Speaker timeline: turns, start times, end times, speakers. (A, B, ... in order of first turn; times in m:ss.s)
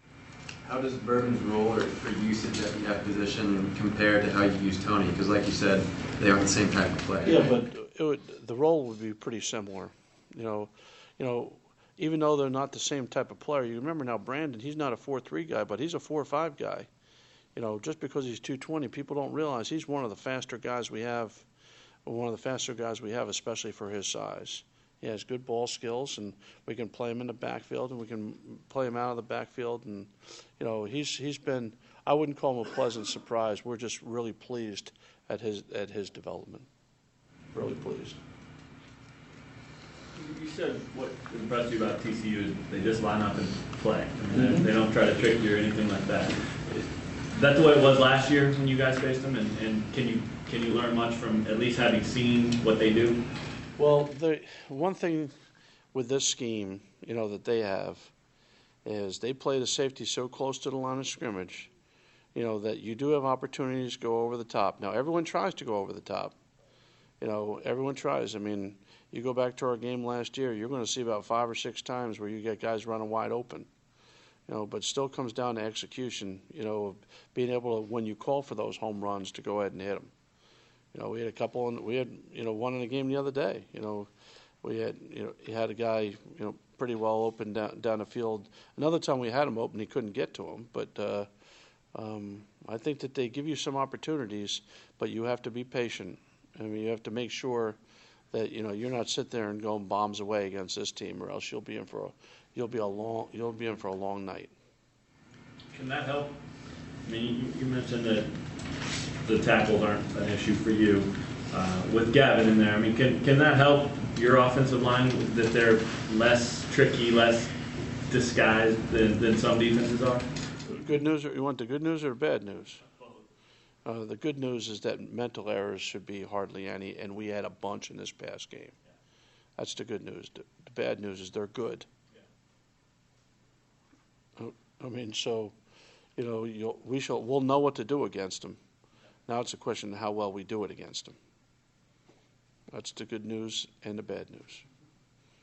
0:00.6-0:07.5 A
0:07.2-0:16.9 B
0:17.6-0:21.4 B
0:22.0-0:36.7 B
0:37.5-0:38.2 B
0:40.1-0:53.2 C
0:44.3-0:44.7 B
0:53.8-0:55.3 B
0:55.9-0:58.1 B
0:58.8-1:01.7 B
1:02.3-1:06.4 B
1:07.2-1:13.7 B
1:14.5-1:20.1 B
1:20.9-1:24.1 B
1:24.6-1:31.3 B
1:31.9-1:37.8 B
1:38.3-1:44.5 B
1:45.7-1:46.4 C
1:47.0-1:48.3 C
1:49.2-1:57.5 C
1:58.1-2:00.2 C
2:00.6-2:02.8 B
2:03.8-2:08.8 B
2:09.6-2:11.9 B
2:14.4-2:15.6 B
2:16.2-2:18.6 B
2:19.3-2:21.2 B
2:22.7-2:24.6 B